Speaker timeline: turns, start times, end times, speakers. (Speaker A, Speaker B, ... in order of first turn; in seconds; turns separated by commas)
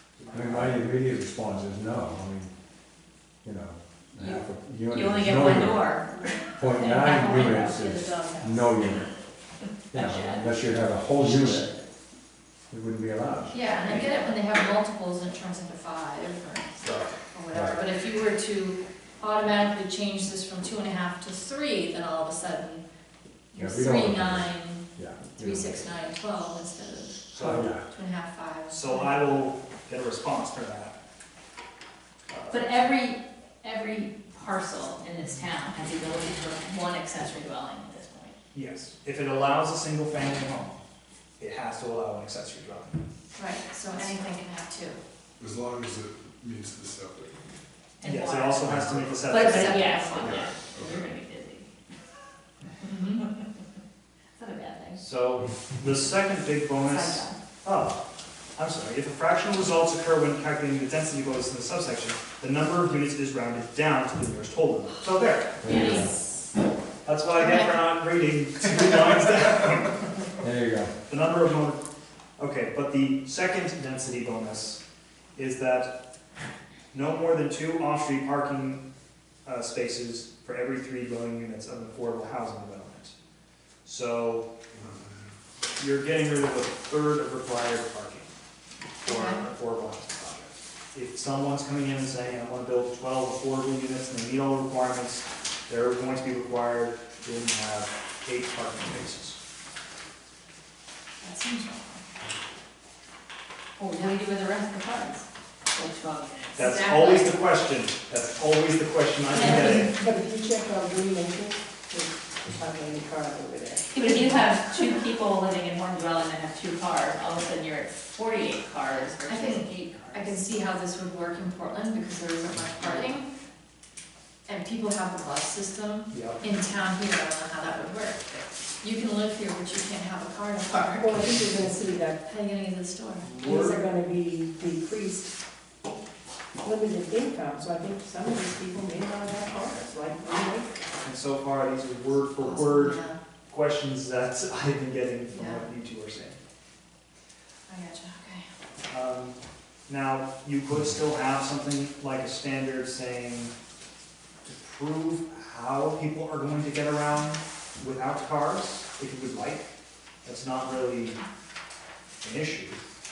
Speaker A: 0.2-0.8, Speaker B: 0.3-2.5, Speaker B: 3.4-5.9, Speaker C: 4.2-8.8, Speaker B: 6.6-9.1, Speaker C: 9.9-10.6, Speaker B: 9.9-11.7, Speaker C: 11.1-11.8, Speaker B: 12.7-13.5, Speaker D: 13.5-22.8, Speaker C: 13.6-14.3, Speaker A: 16.9-17.1, Speaker B: 17.5-17.8, Speaker D: 23.5-29.3, Speaker B: 23.5-25.9, Speaker A: 27.3-27.7, Speaker B: 27.4-27.8, Speaker A: 28.7-31.0, Speaker A: 32.3-32.9, Speaker C: 32.5-38.3, Speaker A: 38.5-40.8, Speaker A: 41.4-43.0, Speaker D: 43.4-45.0, Speaker C: 43.9-44.2, Speaker E: 45.4-47.4, Speaker C: 48.0-51.7, Speaker A: 48.0-50.3, Speaker D: 49.4-50.4, Speaker E: 50.2-51.1, Speaker D: 52.8-53.3, Speaker C: 54.4-55.0, Speaker A: 55.0-58.0, Speaker C: 56.8-57.4, Speaker A: 58.6-66.0, Speaker B: 65.6-66.1, Speaker C: 65.6-66.4, Speaker A: 67.0-70.1, Speaker D: 67.4-67.7, Speaker B: 70.4-70.9, Speaker A: 71.1-71.8, Speaker A: 72.4-74.8, Speaker A: 75.3-75.9, Speaker A: 76.9-78.8, Speaker A: 79.5-83.2, Speaker A: 83.8-84.5, Speaker E: 84.8-85.0, Speaker A: 85.8-88.3, Speaker D: 89.0-89.4, Speaker A: 89.0-99.4, Speaker D: 101.2-102.0, Speaker C: 103.8-106.6, Speaker A: 106.6-109.9, Speaker D: 106.6-107.4, Speaker C: 109.4-109.7, Speaker F: 109.4-114.5, Speaker C: 113.9-120.4, Speaker D: 119.3-123.3, Speaker D: 124.5-131.2, Speaker A: 126.1-126.4, Speaker F: 130.9-132.2, Speaker D: 132.2-133.4, Speaker A: 133.2-133.8, Speaker F: 133.4-135.3, Speaker F: 136.6-140.8, Speaker A: 141.0-146.4, Speaker D: 142.4-143.2, Speaker D: 145.3-145.7, Speaker D: 147.7-148.5, Speaker A: 148.9-149.4, Speaker A: 149.9-153.5, Speaker A: 154.4-159.7, Speaker A: 160.2-161.2, Speaker A: 162.2-162.8